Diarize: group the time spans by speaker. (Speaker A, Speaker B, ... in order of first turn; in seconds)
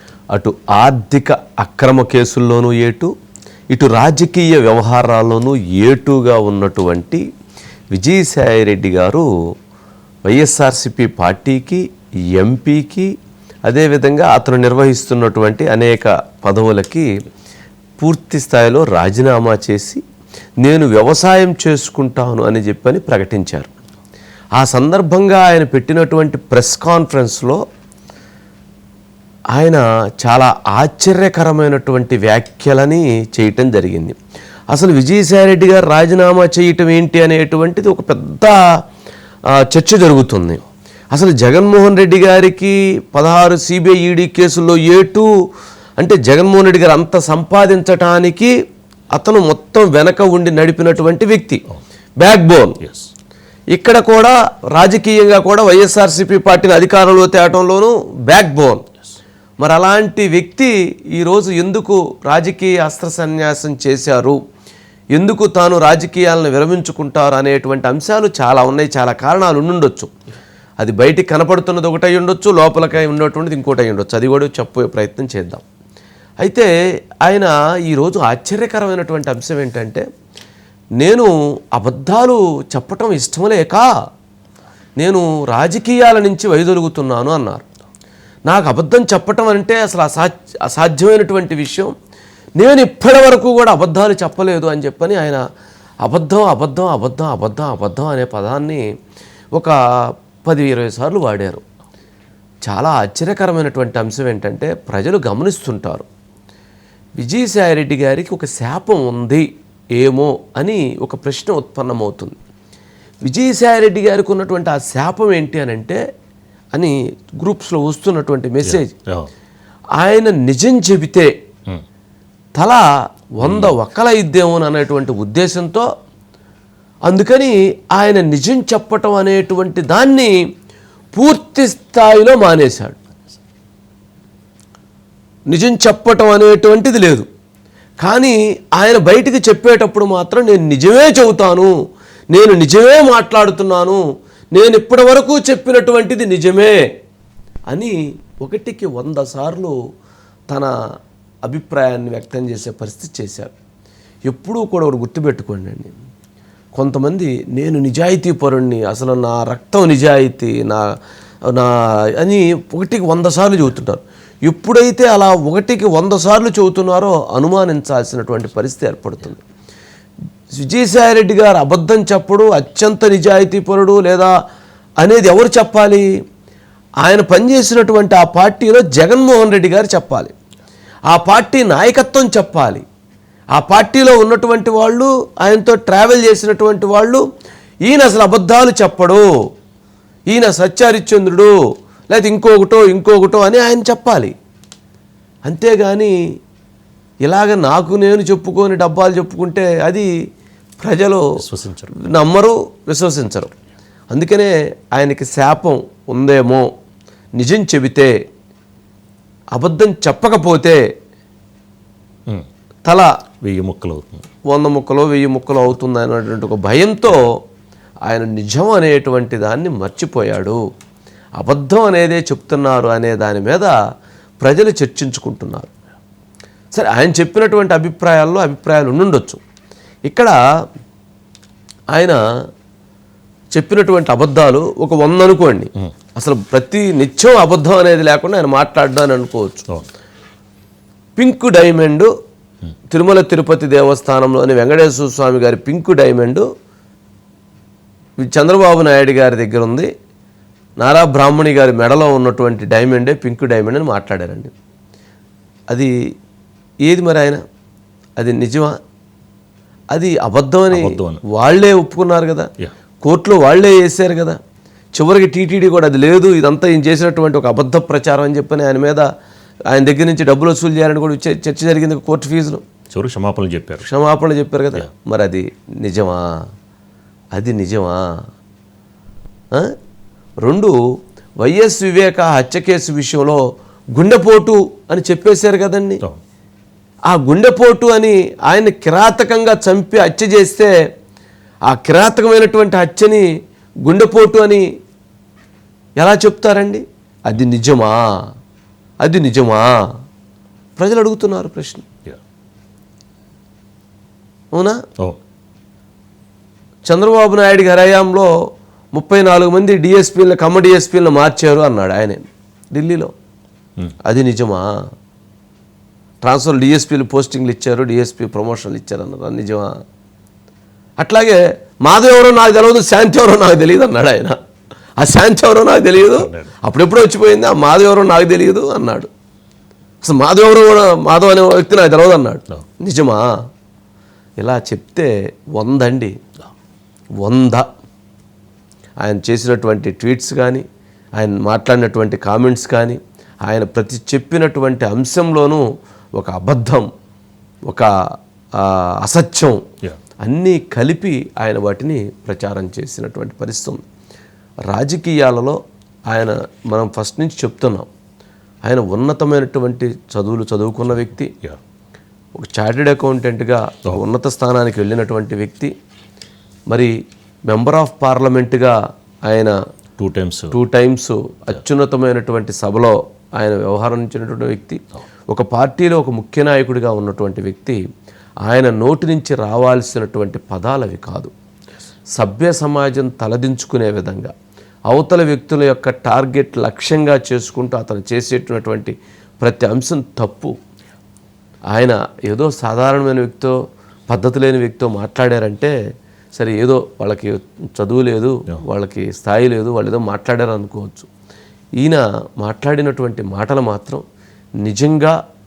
Speaker A: 0.3-3.1, 3.7-7.2, 7.9-9.3, 10.2-13.1, 13.7-17.1, 18.0-20.0, 20.6-23.7, 24.6-27.6, 29.5-34.2, 34.7-38.6, 39.5-40.6, 41.1-45.3, 46.0-48.5, 49.1-51.6, 52.2-52.8, 53.7-58.8, 59.6-64.4, 65.1-70.1, 70.8-75.6, 76.4-76.7, 77.2-80.0, 81.0-83.9, 85.0-87.7, 88.5-91.9, 92.6-95.4, 96.0-98.8, 100.4-101.6, 102.7-106.0, 107.2-109.5, 110.0-112.4, 113.2-116.0, 116.7-118.9, 120.0-121.3, 122.6-122.8, 123.4-125.8, 127.1-130.3, 131.1-133.0, 135.5-137.2, 138.0-141.7, 142.3-144.0, 144.5-146.8, 147.7-149.7, 151.4-153.5, 154.3-155.9, 156.7-160.8, 161.5-169.4, 170.5-174.3, 175.0-176.0, 177.0-180.3, 181.1-182.8, 183.5-187.2, 187.9-189.2, 190.3-191.5, 192.1-194.3, 195.4-196.1, 197.2-200.1, 200.8-201.2, 202.0-203.5, 204.1-206.7, 207.4-208.1, 209.5-210.8, 212.8-213.1, 214.5-217.3, 218.1-220.6, 221.4-223.7, 224.4-225.7, 226.7-229.4, 230.1-230.3, 233.5-239.6, 241.2-242.1, 242.9-246.4, 248.2-249.9, 250.8-254.5, 256.9-257.4, 258.2-258.7, 259.9-262.5, 263.0-264.4, 264.9-269.1, 269.7-272.6, 273.8-276.4, 277.3-278.0, 280.4-280.7, 281.4-283.4, 283.9-286.0, 287.1-290.7, 291.7-293.3, 293.8-294.6, 296.0-298.1, 299.0-299.8, 300.8-301.8, 304.5-304.8, 306.9-308.3, 308.9-313.1, 314.0-314.7, 316.2-319.7, 321.0-324.4, 325.0-329.1, 330.0-333.2, 334.4-336.1, 337.2-337.6, 339.0-340.6, 341.2-345.6, 346.2-346.9, 348.6-349.6, 350.2-353.9, 354.7-355.6, 356.1-357.9, 358.6-361.3, 362.4-365.7, 367.5-368.7, 369.3-369.5, 370.5-377.8, 378.4-381.3, 382.1-384.3, 384.9-390.5, 391.7-393.6, 394.1-395.7, 396.3-401.1, 401.8-404.0, 404.6-405.1
Speaker B: 52.8-53.1, 118.6-119.3, 123.4-123.7, 201.4-201.9, 213.4-214.2, 260.7-261.2, 272.9-273.8, 326.0-326.5, 370.0-370.5